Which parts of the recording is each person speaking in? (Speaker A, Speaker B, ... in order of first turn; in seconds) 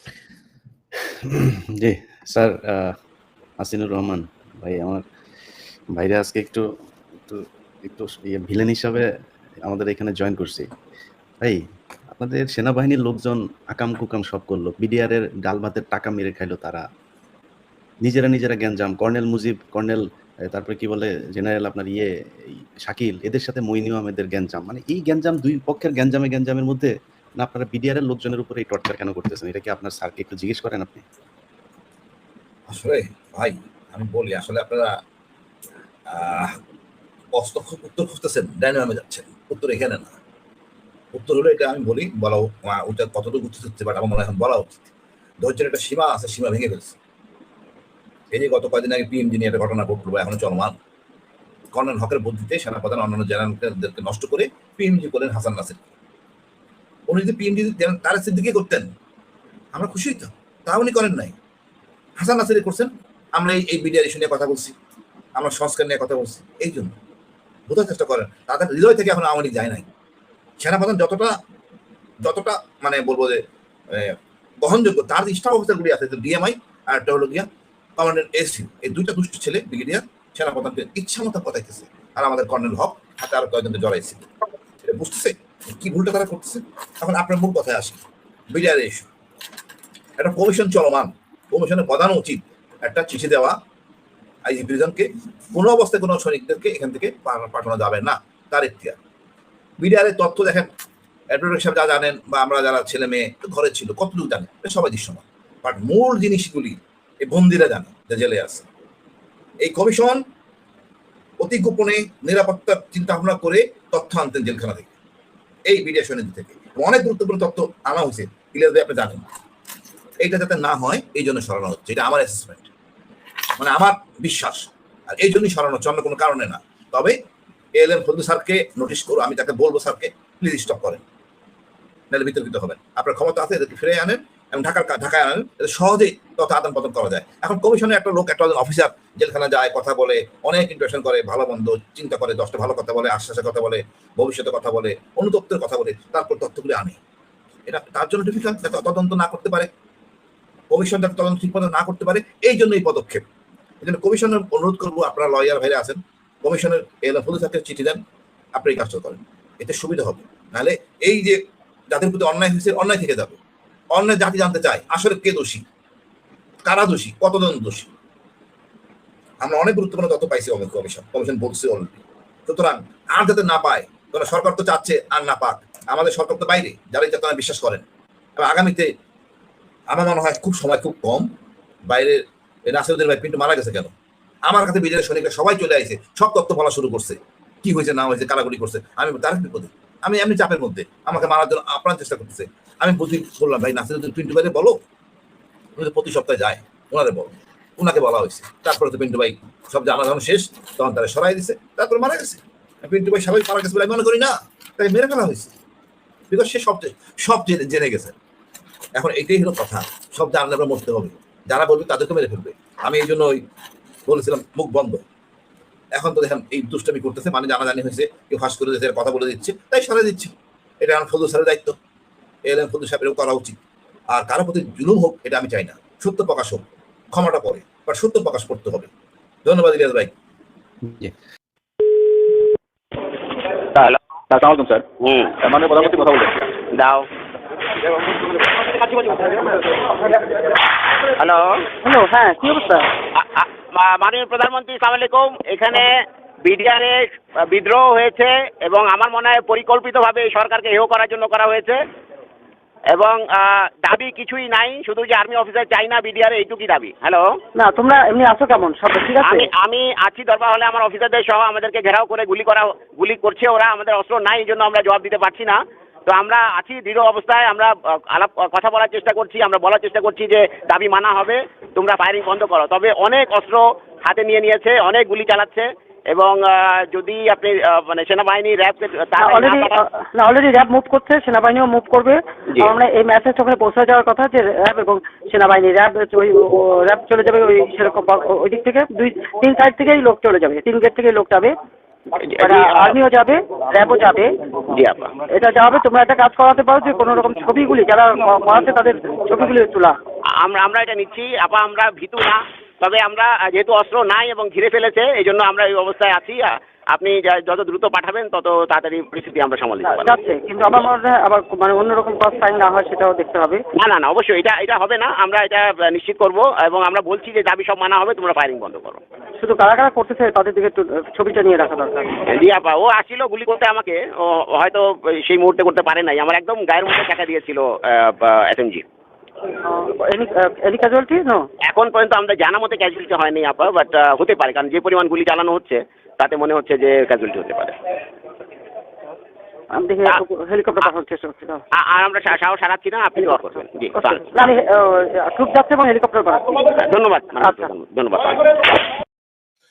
Speaker A: 1.1-3.0, 3.6-5.0, 5.9-6.7, 7.3-9.1, 9.6-10.7, 11.4-16.8, 18.0-22.1, 22.8-31.0, 230.9-231.1
Speaker B: 32.7-35.0, 36.1-36.6, 37.3-40.2, 41.1-44.8, 45.4-47.0, 48.3-50.8, 51.7-55.8, 57.1-58.9, 59.7-61.3, 62.2-64.7, 65.3-66.9, 67.7-69.8, 70.6-71.4, 72.2-84.2, 84.8-89.1, 90.2-93.6, 94.4-99.0, 99.8-100.7, 101.3-108.6, 109.6-110.2, 111.4-114.9, 115.7-119.2, 120.2-122.7, 123.6-127.2, 127.7-131.0, 132.1-147.0, 147.7-149.7, 150.7-153.2, 153.8-158.0, 158.5-163.4, 163.9-165.6, 166.6-167.9, 169.4-177.8, 178.4-178.9, 179.9-181.3, 181.8-183.9, 184.4-194.8, 195.8-205.5, 206.3-208.1, 208.9-213.4, 214.1-215.0, 215.9-221.8, 222.4-223.6, 224.1-228.9, 229.4-230.1
Speaker C: 233.7-234.8, 235.4-236.5
Speaker D: 235.0-235.3, 236.7-237.1, 241.2-241.7, 243.1-251.8, 252.9-257.4, 259.2-279.8, 292.2-292.9, 294.7-295.1, 300.4-310.1, 313.7-319.0, 322.2-328.8, 331.6-337.8, 341.7-344.3, 346.8-348.8
Speaker E: 241.8-242.9, 257.5-259.5, 279.2-291.5, 292.4-294.3, 295.3-299.9, 309.9-313.6, 319.4-322.2, 329.6-331.5, 339.7-341.6, 343.9-346.7, 347.4-347.7